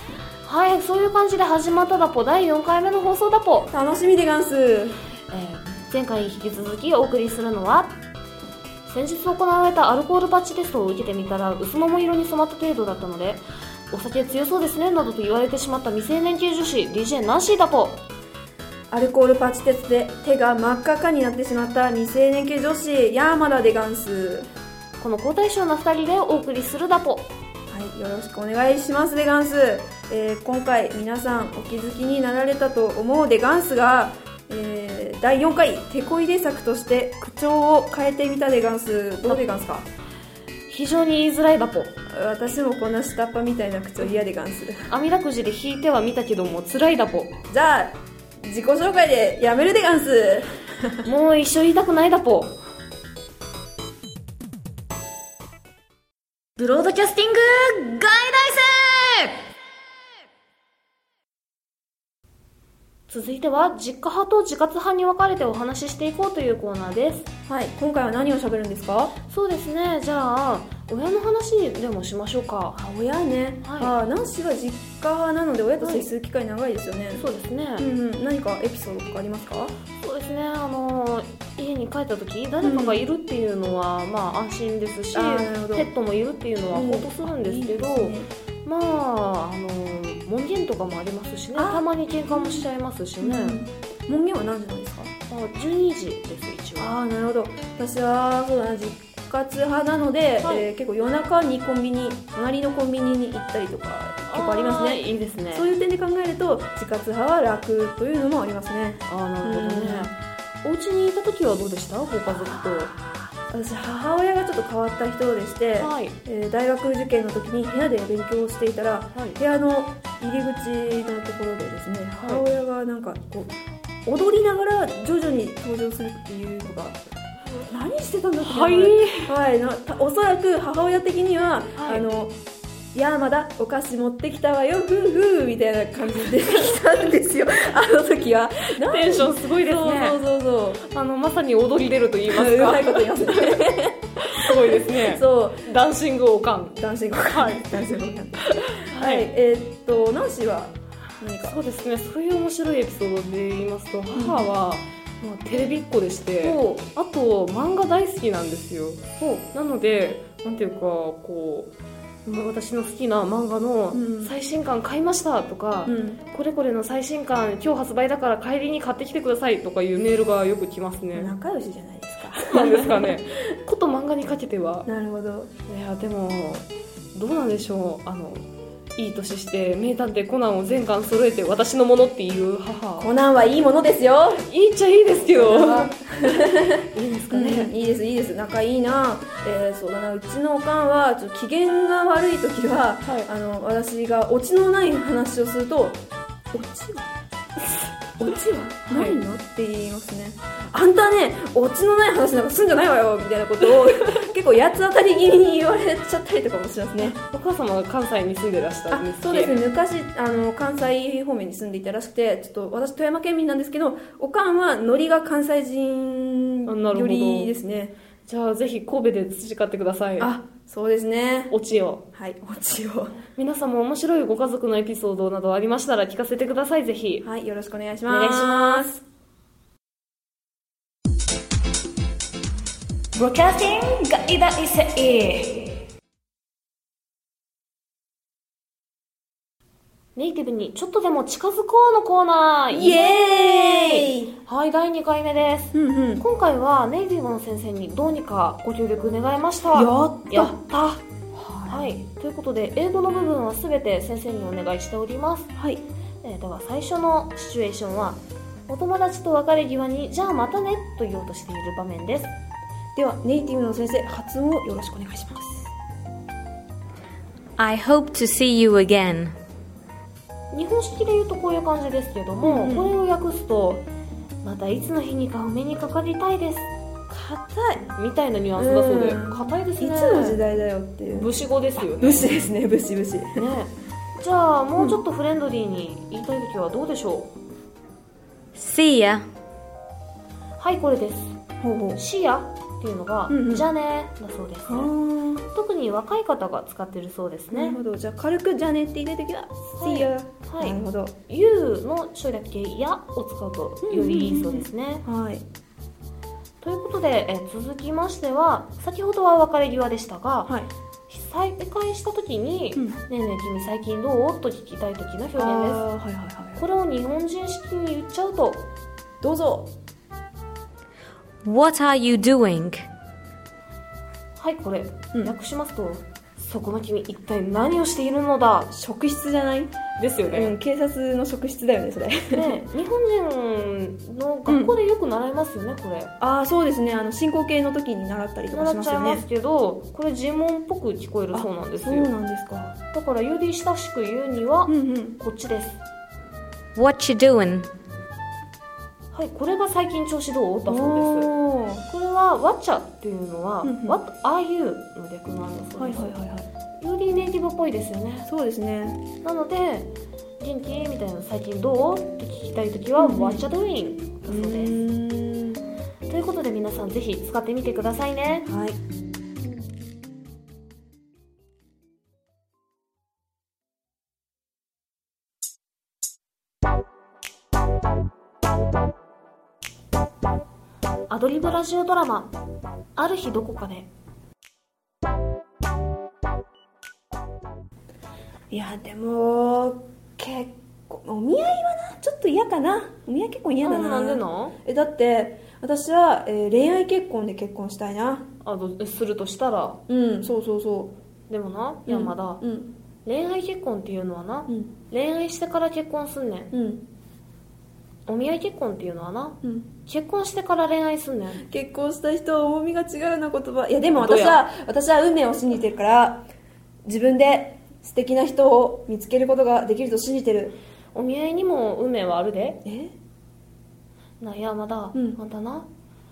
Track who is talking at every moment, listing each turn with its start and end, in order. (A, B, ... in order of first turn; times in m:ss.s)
0:00.4-0:03.7 A
0:03.7-0:05.0 B
0:05.3-0:08.0 A
0:08.8-0:18.0 A
0:18.9-0:24.5 B
0:25.0-0:27.3 A
0:27.7-0:39.9 B
0:39.2-0:39.6 A
0:40.7-0:41.9 A
0:42.1-0:44.9 B
0:44.9-0:47.4 A
0:47.5-0:51.0 B
0:51.0-0:52.6 A
0:56.6-0:59.3 A
0:56.8-0:57.3 C
1:03.1-1:07.3 A
1:07.5-1:09.1 B
1:09.3-1:12.8 A
1:12.7-1:17.2 B
1:13.6-1:13.9 A
1:15.8-1:16.1 A
1:17.1-1:17.9 A
1:17.8-1:19.7 B
1:19.9-1:33.6 A
1:22.6-1:23.0 B
1:25.1-1:25.9 B
1:26.7-1:28.3 B
1:31.5-1:32.7 B
1:33.2-1:35.1 B
1:35.3-1:36.9 A
1:36.8-1:50.1 B
1:40.4-1:40.7 A
1:44.3-1:45.7 A
1:49.1-1:52.9 A
1:52.2-2:03.5 B
1:55.8-1:56.2 A
2:04.0-2:07.0 B
2:07.7-2:12.3 B
2:08.4-2:09.3 A
2:11.8-2:12.0 A
2:12.9-2:20.8 B
2:18.8-2:20.2 A
2:20.8-2:23.6 A
2:22.3-2:25.7 B
2:24.2-2:26.8 A
2:26.8-2:31.6 B
2:27.3-2:27.7 A
2:28.4-2:29.3 A
2:31.4-2:41.7 A
2:34.1-2:34.5 B
2:36.4-2:36.7 B
2:39.2-2:39.4 B
2:42.2-2:51.3 A
2:43.9-2:44.3 B
2:45.8-2:46.2 B
2:51.1-2:53.2 B
2:52.5-2:54.9 A
2:54.8-2:55.5 B
2:55.7-3:03.1 A
3:03.0-3:04.4 B
3:04.4-3:07.7 A
3:05.1-3:17.1 B
3:18.2-3:27.2 B
3:18.9-3:19.2 A
3:27.0-3:29.6 A
3:28.9-3:37.9 B
3:36.7-3:37.5 A
3:38.2-3:40.3 A
3:40.2-3:41.5 B
3:41.5-3:42.0 A
3:42.1-3:43.2 B
3:43.3-3:47.2 A
3:47.2-3:49.0 B
3:48.1-3:49.0 A
3:53.2-3:55.7 A
4:00.2-4:11.0 A
4:02.7-4:04.3 B
4:05.7-4:06.2 B
4:09.7-4:10.6 B
4:11.3-4:12.0 B
4:11.7-4:15.5 A
4:15.6-4:15.8 B
4:16.2-4:22.3 A
4:22.9-4:25.7 B
4:27.6-4:29.3 C
4:30.5-4:33.8 A
4:32.4-4:32.9 B
4:34.4-4:36.7 A
4:37.1-4:37.9 B
4:37.9-4:40.5 A
4:38.6-4:43.4 B
4:41.1-4:42.4 A
4:43.4-4:47.3 A
4:48.5-4:49.2 C
4:50.6-4:51.4 A
4:51.6-4:52.0 B
4:52.0-4:54.9 A
4:53.3-4:53.7 B
4:54.6-4:55.4 B
4:55.4-4:57.8 A
4:57.5-5:01.1 B
4:59.8-5:05.0 A
5:03.8-5:05.4 B
5:06.6-5:10.5 A
5:11.1-5:15.9 A
5:15.4-5:16.6 B
5:16.6-5:18.7 A
5:19.2-5:19.7 B
5:21.4-5:22.8 C
5:24.4-5:28.7 A
5:28.7-5:29.7 B
5:30.0-5:30.6 A
5:30.2-5:32.6 B
5:32.3-5:36.1 A
5:34.5-5:34.7 B
5:36.2-5:39.2 B
5:38.5-5:42.1 A
5:41.3-5:42.7 B
5:42.9-5:45.8 A
5:44.7-5:45.2 B
5:46.7-5:47.7 C
5:49.1-5:51.3 A
5:50.7-5:51.8 B
5:51.8-5:56.2 A
5:53.6-5:54.0 B
5:55.8-5:56.5 B
5:56.8-5:58.3 A
5:58.3-5:59.0 B
5:59.2-6:04.8 A
6:03.0-6:03.4 B
6:04.2-6:05.6 B
6:06.1-6:08.5 A
6:08.4-6:08.8 B
6:21.1-6:22.4 A
6:23.0-6:23.9 A
6:28.5-6:38.3 B
6:33.6-6:34.5 A
6:38.4-6:39.8 A
6:39.9-6:40.9 B
6:41.3-6:42.4 A
6:41.8-6:42.7 B
6:43.0-6:46.5 A
6:46.5-6:46.8 B
6:48.1-6:51.4 A
6:49.4-6:49.7 B
6:51.5-6:56.3 B
6:53.9-6:54.4 A
6:56.8-7:00.6 B
7:00.9-7:02.6 A
7:02.6-7:02.9 B
7:04.2-7:05.7 A
7:04.9-7:05.2 B